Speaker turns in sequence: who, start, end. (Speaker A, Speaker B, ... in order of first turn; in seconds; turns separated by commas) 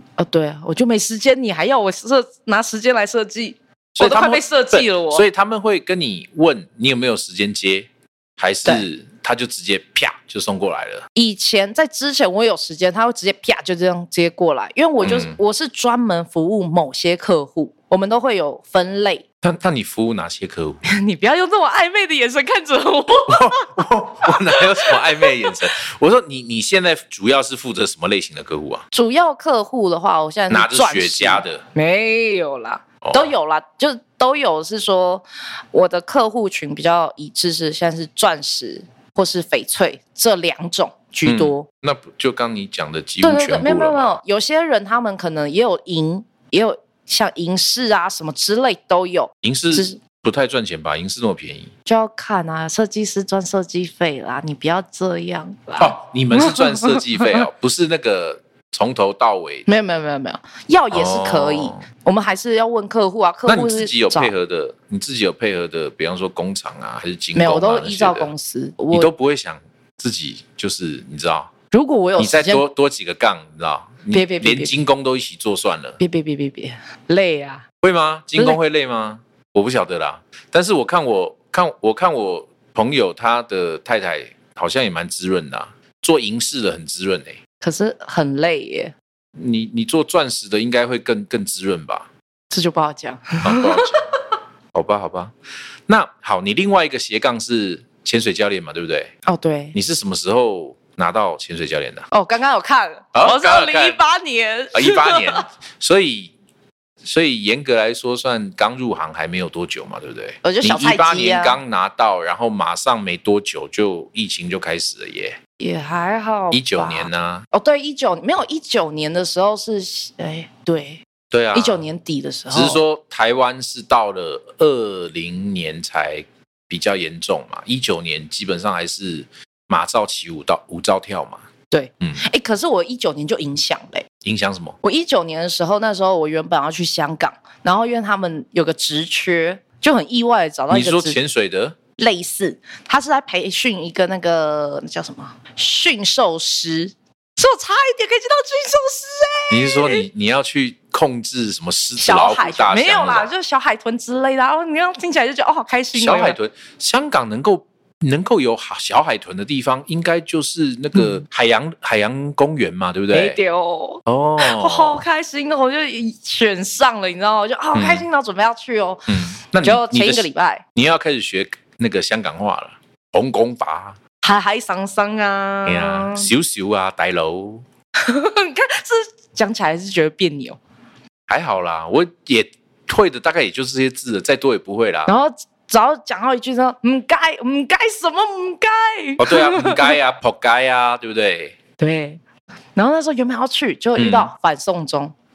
Speaker A: 0.2-5.2, Speaker B: 4.0-11.1, Speaker A: 11.1-19.2, Speaker B: 15.0-15.4, Speaker B: 19.4-20.8, Speaker A: 20.8-23.7, Speaker B: 23.3-28.8, Speaker A: 24.2-25.2, Speaker A: 28.9-41.6, Speaker B: 30.5-31.6, Speaker B: 33.0-33.3, Speaker B: 41.2-44.2, Speaker A: 43.2-50.0, Speaker B: 49.4-51.7, Speaker A: 51.9-57.4, Speaker B: 55.8-59.6, Speaker A: 59.6-64.3, Speaker B: 60.9-61.8, Speaker B: 63.5-68.3, Speaker A: 67.3-69.1, Speaker B: 68.9-71.5, Speaker A: 71.7-72.6, Speaker B: 72.2-76.0, Speaker A: 74.1-74.7, Speaker A: 76.0-77.6, Speaker B: 77.8-87.4, Speaker A: 87.6-88.9, Speaker B: 89.3-92.1, Speaker A: 92.5-94.0, Speaker B: 93.4-94.1, Speaker B: 94.7-95.3, Speaker B: 95.9-99.1, Speaker A: 99.2-99.7, Speaker B: 99.7-102.1, Speaker A: 102.1-105.5, Speaker B: 103.1-104.0, Speaker B: 104.7-106.3, Speaker B: 107.0-115.4, Speaker A: 110.4-111.6, Speaker A: 115.6-121.0, Speaker B: 116.5-117.5, Speaker B: 121.3-121.8, Speaker A: 121.5-122.8, Speaker B: 122.5-131.4, Speaker A: 131.7-134.1, Speaker B: 134.2-134.8, Speaker A: 134.8-141.2, Speaker B: 140.7-141.8, Speaker A: 142.0-150.0, Speaker B: 149.5-153.3, Speaker A: 152.0-156.4, Speaker B: 155.9-163.4, Speaker A: 163.1-169.1, Speaker B: 164.1-165.0, Speaker B: 167.7-168.0, Speaker B: 169.1-174.0, Speaker A: 169.6-170.6, Speaker A: 174.2-176.3, Speaker B: 175.7-177.6, Speaker A: 178.0-180.6, Speaker B: 181.3-185.1, Speaker A: 185.1-189.9, Speaker B: 189.2-191.6, Speaker A: 191.8-192.2, Speaker A: 192.8-195.1, Speaker B: 194.0-194.3